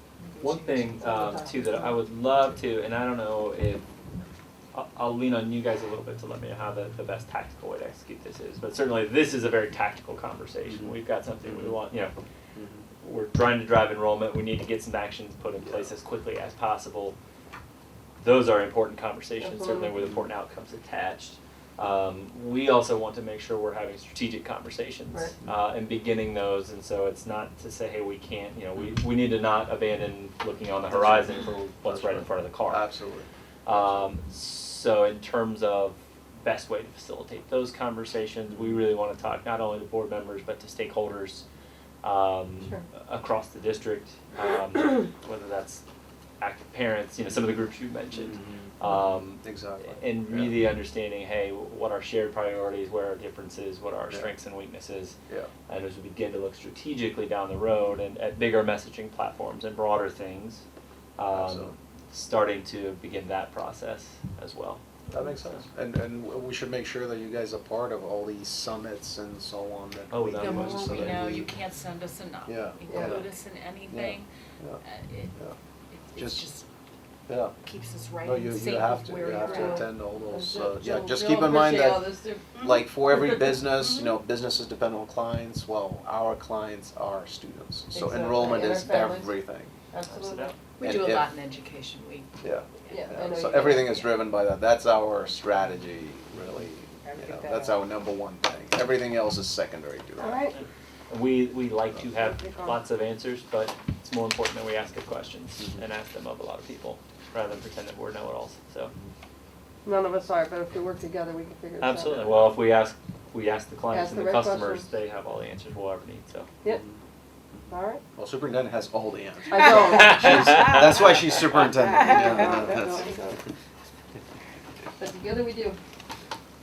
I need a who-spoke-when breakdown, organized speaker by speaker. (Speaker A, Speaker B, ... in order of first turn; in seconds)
Speaker A: 0.2-1.5, 70.3-74.3, 74.8-75.3, 75.9-76.7, 77.6-79.9, 82.5-83.3, 90.7-92.3, 97.0-97.8
Speaker B: 0.4-3.8, 4.7-12.1, 13.0-17.1, 18.2-32.8, 33.6-41.4, 42.0-45.8, 46.4-55.1, 55.7-60.6, 61.2-64.9, 70.1-71.3, 90.0-90.5, 100.5-108.9, 111.8-116.5, 120.0-120.7
Speaker C: 1.0-2.0, 19.4-19.9, 72.9-73.2, 79.3-82.5, 87.9-89.3, 89.9-90.6, 92.9-94.1, 100.2-100.5, 102.1-102.8, 109.8-112.4, 113.9-114.9, 117.7-118.0, 119.5-120.7, 122.0-123.4, 125.0-125.8
Speaker D: 10.7-11.8, 12.5-12.8, 15.6-15.9, 19.9-20.3, 30.9-31.3, 31.8-33.9, 38.5-38.9, 48.1-48.7, 49.4-50.7, 61.3-61.7, 65.1-71.5, 72.5-73.2, 73.9-74.8, 76.2-76.4, 77.3-77.5, 78.2-89.7, 90.8-91.3, 92.4-100.6, 116.6-117.0, 117.5-123.1